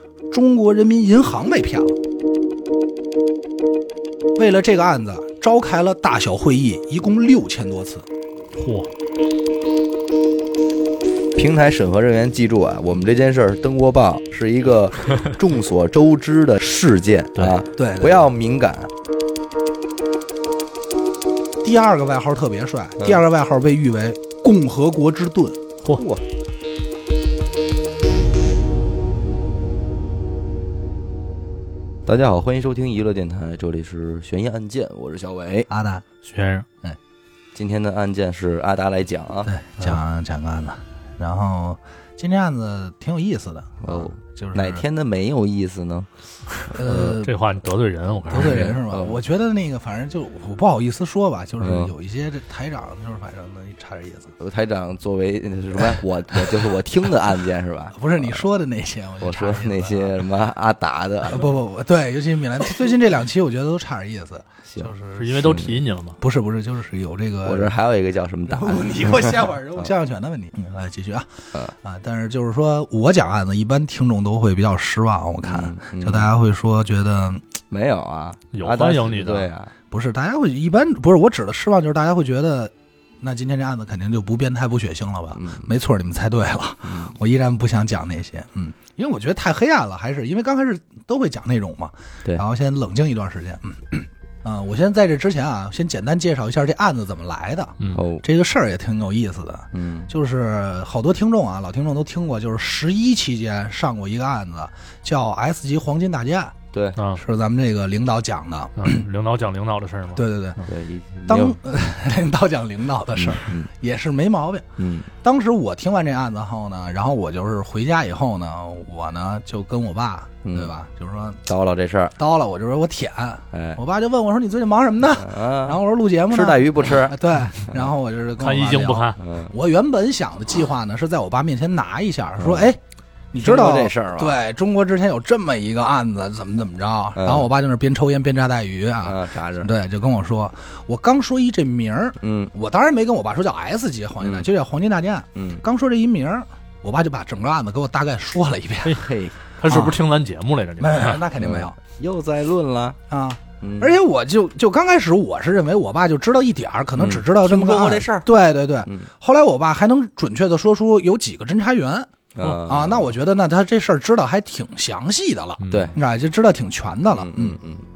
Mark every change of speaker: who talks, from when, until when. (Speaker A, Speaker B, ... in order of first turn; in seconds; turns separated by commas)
Speaker A: 0.3-2.0, Speaker A: 4.3-8.0, Speaker B: 8.6-8.9, Speaker C: 11.3-18.9, Speaker A: 17.8-18.2, Speaker A: 21.6-25.6, Speaker C: 25.9-26.2, Speaker C: 32.0-35.7, Speaker A: 35.7-36.0, Speaker B: 36.2-36.6, Speaker C: 37.5-39.5, Speaker A: 39.5-44.8, Speaker C: 43.8-46.1, Speaker C: 46.7-47.2, Speaker A: 46.7-47.3, Speaker B: 47.0-48.7, Speaker A: 48.3-54.3, Speaker C: 48.4-49.2, Speaker C: 51.6-51.9, Speaker C: 54.4-58.3, Speaker A: 57.9-60.2, Speaker C: 59.2-61.5, Speaker A: 61.3-65.2, Speaker C: 64.7-65.8, Speaker B: 65.2-66.2, Speaker A: 66.2-67.7, Speaker C: 67.4-69.9, Speaker A: 68.5-71.3, Speaker A: 71.8-77.4, Speaker C: 75.4-76.3, Speaker C: 77.7-79.7, Speaker B: 78.5-79.5, Speaker A: 79.9-106.5, Speaker C: 85.3-85.7, Speaker C: 86.8-87.1, Speaker C: 97.9-98.2, Speaker C: 99.7-100.1, Speaker C: 106.7-107.0, Speaker A: 107.1-109.0, Speaker B: 108.8-110.2, Speaker A: 110.1-110.6, Speaker C: 110.6-111.8, Speaker A: 111.3-114.7, Speaker C: 113.2-113.7, Speaker C: 114.8-115.1, Speaker A: 115.2-121.4, Speaker C: 120.4-120.7, Speaker C: 121.5-122.2, Speaker A: 122.2-132.8, Speaker C: 123.5-123.8, Speaker C: 125.1-127.2, Speaker B: 128.4-129.2, Speaker C: 129.2-129.5, Speaker C: 132.4-132.7, Speaker A: 133.3-149.0, Speaker C: 133.4-134.4, Speaker C: 137.2-137.5, Speaker C: 139.0-139.7, Speaker C: 142.2-142.5, Speaker C: 144.2-144.5, Speaker C: 145.3-145.6, Speaker C: 148.8-149.4, Speaker B: 149.6-151.2, Speaker A: 149.7-150.0, Speaker A: 150.8-151.8, Speaker C: 151.4-153.0, Speaker A: 153.1-167.6, Speaker C: 153.6-154.0, Speaker C: 157.0-158.3, Speaker C: 162.3-163.1, Speaker B: 165.6-165.9, Speaker C: 165.7-166.0, Speaker C: 167.1-167.8